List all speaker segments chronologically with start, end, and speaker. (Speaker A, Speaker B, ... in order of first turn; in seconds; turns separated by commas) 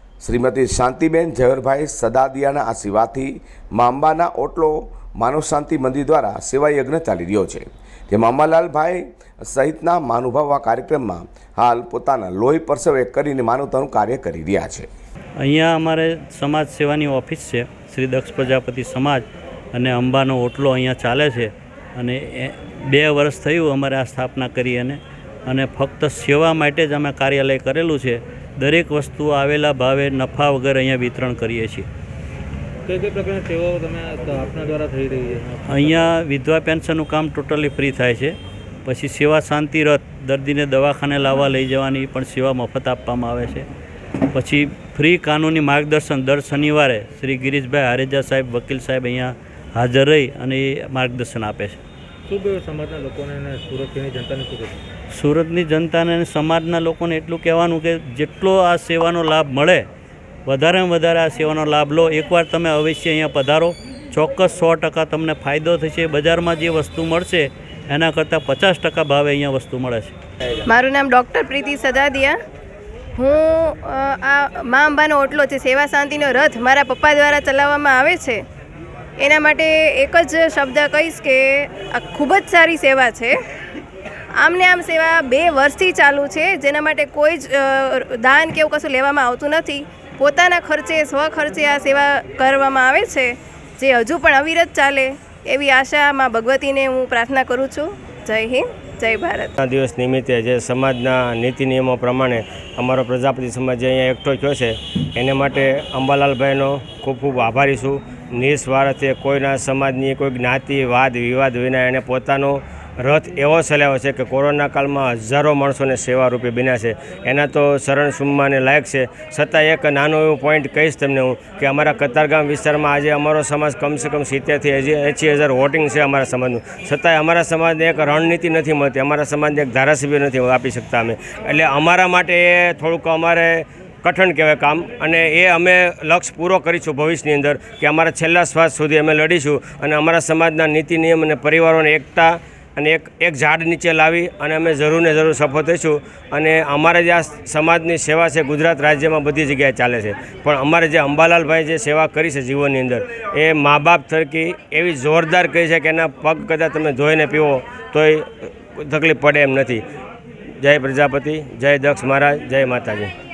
Speaker A: 0.2-14.9, Speaker B: 15.4-31.9, Speaker C: 32.9-36.1, Speaker B: 35.7-38.3, Speaker B: 38.9-43.7, Speaker B: 44.3-51.8, Speaker C: 52.3-54.8, Speaker B: 55.1-59.9, Speaker B: 60.5-70.1, Speaker D: 70.7-72.3, Speaker D: 73.2-78.4, Speaker D: 79.2-83.3, Speaker D: 84.4-99.5, Speaker E: 99.6-159.8, Speaker E: 160.6-163.1